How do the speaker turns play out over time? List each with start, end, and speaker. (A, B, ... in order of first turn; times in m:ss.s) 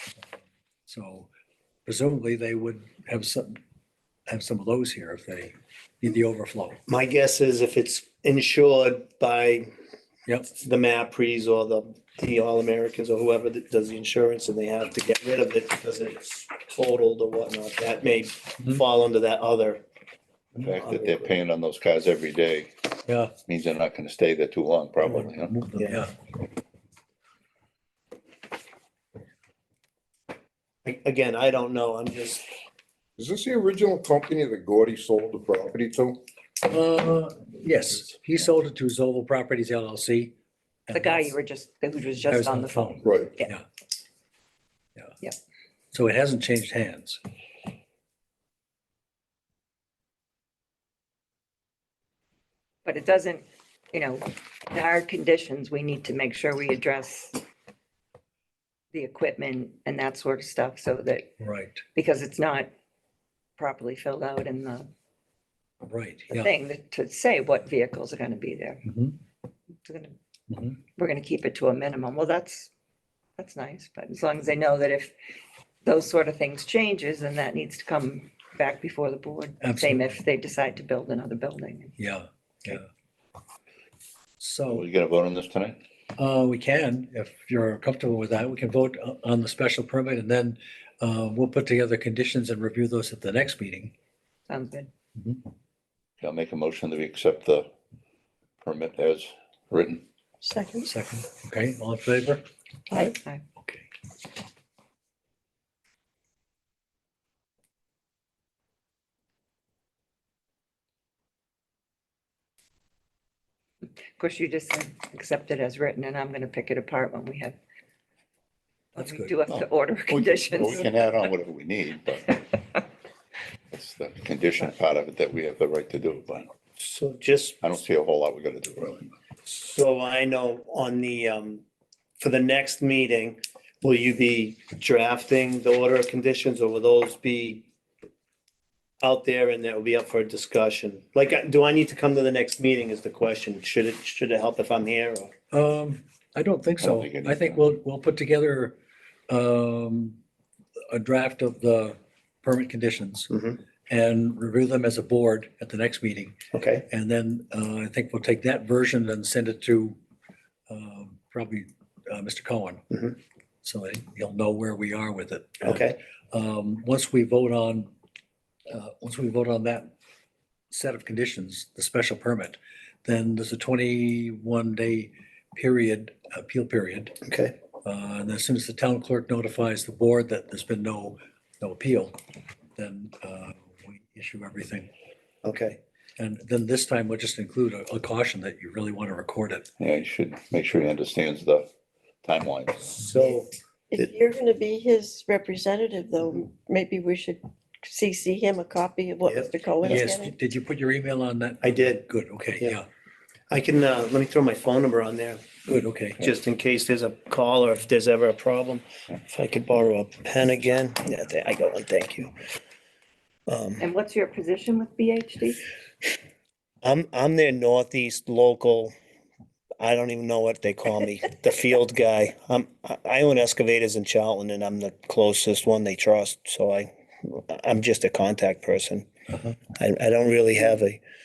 0:00.9-0:01.3 A
0:01.8-0:03.6 A
0:04.3-0:06.8 A
0:06.9-0:09.7 B
0:10.2-0:10.5 A
0:10.6-0:19.8 B
0:20.6-0:22.9 C
0:20.8-0:21.1 B
0:23.0-0:23.3 A
0:23.4-0:25.5 C
0:25.4-0:26.1 A
0:25.8-0:26.0 B
0:30.8-0:32.4 B
0:33.2-0:36.2 D
0:36.6-0:40.3 A
0:40.9-0:41.3 A
0:40.9-0:43.5 E
0:42.3-0:43.6 A
0:43.0-0:43.3 D
0:45.9-0:47.2 A
0:52.8-0:57.4 E
0:58.9-1:01.3 E
1:01.4-1:01.8 A
1:01.9-1:02.7 E
1:03.6-1:04.9 E
1:05.8-1:06.5 A
1:06.3-1:08.8 E
1:08.8-1:09.2 A
1:09.8-1:10.2 E
1:10.5-1:10.8 A
1:11.0-1:12.7 E
1:13.4-1:15.1 E
1:15.8-1:21.9 E
1:19.6-1:20.2 A
1:22.0-1:22.9 A
1:24.4-1:24.8 A
1:24.7-1:25.8 C
1:26.2-1:33.9 A
1:34.5-1:34.9 E
1:36.2-1:37.7 C
1:38.6-1:40.0 C
1:40.4-1:40.9 F
1:40.8-1:42.4 A
1:42.9-1:43.4 E
1:43.6-1:43.8 A
1:54.2-1:57.6 E
1:58.9-2:01.0 E
1:59.0-1:59.4 A
1:59.5-2:02.4 C
2:03.7-2:06.5 C
2:06.8-2:07.6 B
2:07.6-2:09.1 C
2:09.5-2:11.6 B
2:12.2-2:17.6 B
2:19.0-2:25.3 B
2:25.5-2:28.8 A
2:26.8-2:27.6 C
2:29.3-2:30.2 A
2:30.9-2:33.3 A
2:33.3-2:33.6 B
2:33.9-2:36.4 A
2:36.5-2:36.8 B
2:36.9-2:40.0 A
2:40.7-2:42.8 A
2:43.6-2:47.9 A
2:45.6-2:46.0 B
2:48.7-2:49.9 A
2:50.7-2:57.2 A
2:57.2-2:57.5 B
2:57.8-3:02.2 A
3:02.8-3:04.9 A
3:05.4-3:05.8 B
3:06.2-3:09.7 A
3:09.8-3:11.7 C
3:12.2-3:13.0 C
3:13.0-3:14.0 B
3:13.9-3:20.3 F
3:19.3-3:20.0 B
3:19.8-3:22.8 A
3:21.6-3:22.1 B
3:23.5-3:25.4 B
3:25.6-3:26.3 A
3:26.2-3:32.3 B
3:33.5-3:33.8 B
3:33.8-3:35.6 E
3:36.8-3:38.9 B
3:39.8-3:49.1 B
3:49.8-3:51.0 B